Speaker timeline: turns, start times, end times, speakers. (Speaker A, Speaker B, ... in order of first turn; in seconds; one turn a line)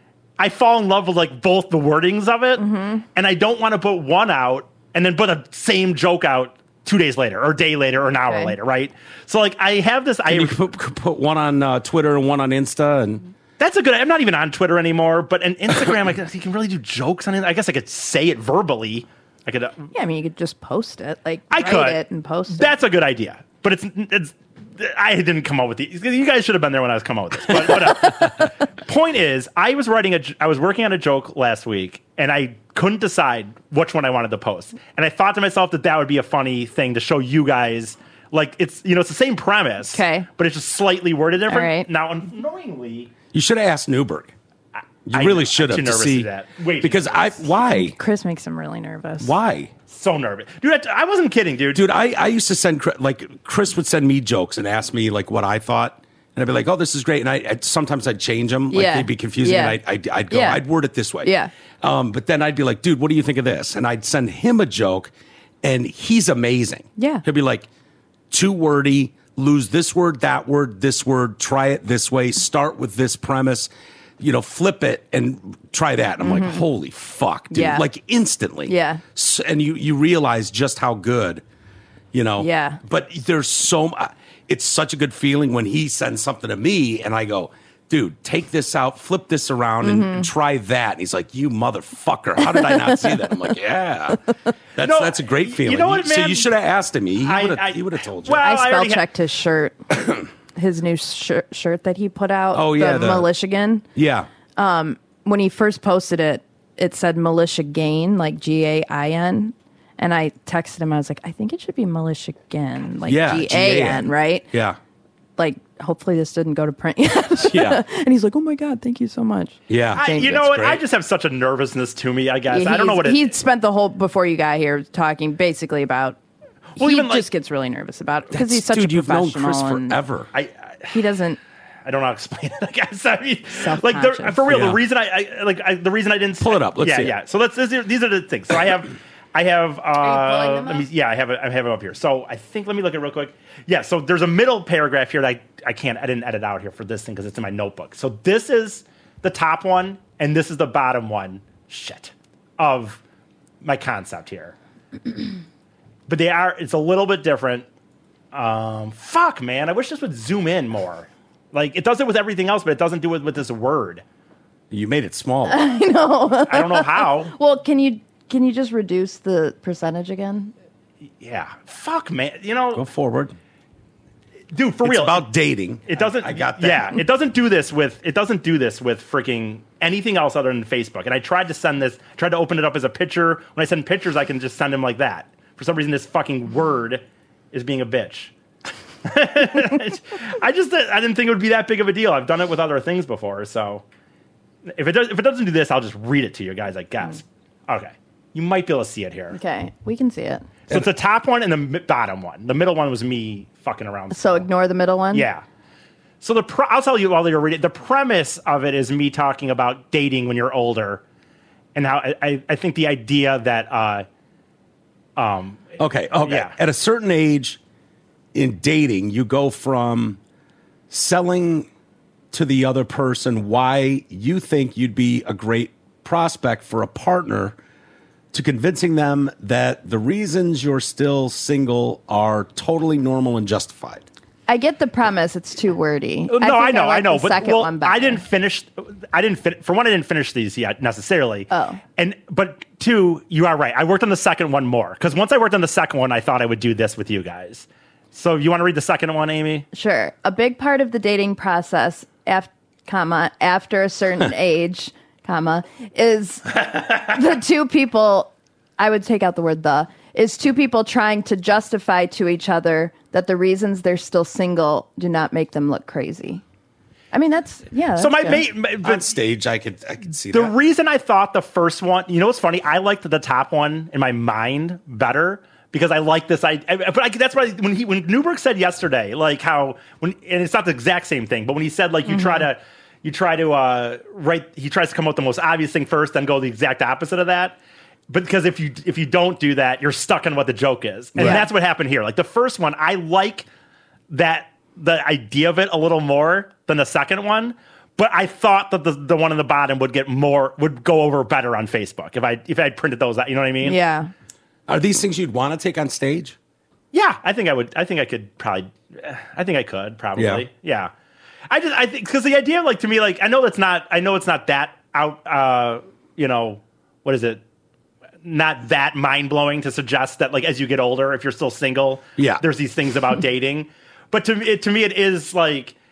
Speaker A: 0.4-10.6
Speaker B: 2.6-3.0
Speaker B: 8.2-8.6
Speaker C: 10.3-13.2
Speaker A: 13.6-19.9
Speaker B: 19.9-22.7
Speaker A: 21.5-43.1
Speaker B: 39.9-40.3
Speaker B: 41.5-41.9
Speaker C: 43.3-44.3
Speaker C: 45.1-46.3
Speaker A: 45.1-47.5
Speaker C: 46.8-48.0
Speaker B: 47.7-49.3
Speaker C: 49.2-49.7
Speaker A: 49.9-51.9
Speaker C: 51.7-65.1
Speaker B: 58.7-60.6
Speaker B: 61.2-61.5
Speaker C: 65.6-67.7
Speaker B: 67.0-67.2
Speaker C: 68.3-81.4
Speaker B: 76.2-76.6
Speaker B: 77.5-77.9
Speaker B: 78.7-79.0
Speaker C: 82.1-98.5
Speaker B: 82.4-82.8
Speaker B: 89.8-90.3
Speaker B: 92.4-93.2
Speaker A: 94.8-96.5
Speaker A: 97.2-99.0
Speaker B: 98.4-99.8
Speaker C: 99.9-100.2
Speaker B: 100.6-103.8
Speaker C: 102.5-103.3
Speaker C: 104.0-104.3
Speaker B: 104.6-114.5
Speaker C: 113.1-114.8
Speaker B: 115.4-120.5
Speaker C: 117.4-117.8
Speaker C: 119.7-120.8
Speaker A: 120.0-123.3
Speaker B: 122.5-126.2
Speaker A: 126.8-127.3
Speaker B: 126.8-130.0
Speaker C: 128.3-130.3
Speaker A: 130.3-130.9
Speaker B: 130.9-131.4
Speaker A: 131.8-153.0
Speaker B: 133.6-134.4
Speaker C: 134.5-134.8
Speaker C: 136.4-137.2
Speaker B: 140.0-140.9
Speaker A: 153.6-154.6
Speaker A: 156.1-157.7
Speaker A: 158.3-164.0
Speaker C: 164.7-165.7
Speaker B: 165.5-170.5
Speaker A: 166.5-167.3
Speaker A: 171.2-172.8
Speaker C: 172.8-173.4
Speaker A: 174.5-175.3
Speaker C: 174.8-177.0
Speaker A: 175.9-188.3
Speaker A: 189.1-193.8
Speaker A: 194.8-199.4
Speaker B: 199.3-200.5
Speaker A: 200.7-204.5
Speaker B: 204.1-205.3
Speaker A: 205.1-205.4
Speaker A: 206.2-211.0
Speaker A: 211.8-214.1
Speaker A: 215.2-216.6
Speaker C: 215.8-217.6
Speaker C: 218.3-220.2
Speaker C: 220.9-221.7
Speaker C: 222.3-227.6
Speaker C: 228.3-234.0
Speaker B: 234.5-238.2
Speaker A: 236.3-249.7
Speaker B: 241.5-241.8
Speaker B: 249.7-266.4
Speaker B: 267.1-268.4
Speaker A: 268.0-269.1
Speaker C: 268.8-270.5
Speaker A: 270.3-287.6
Speaker B: 282.1-282.4
Speaker A: 288.1-293.5
Speaker C: 291.1-291.5
Speaker B: 291.2-291.5
Speaker A: 294.1-303.8
Speaker B: 303.6-304.1
Speaker C: 304.7-306.4
Speaker A: 306.9-310.9
Speaker C: 310.2-310.4
Speaker A: 311.5-317.4
Speaker A: 318.2-325.8
Speaker C: 322.2-322.4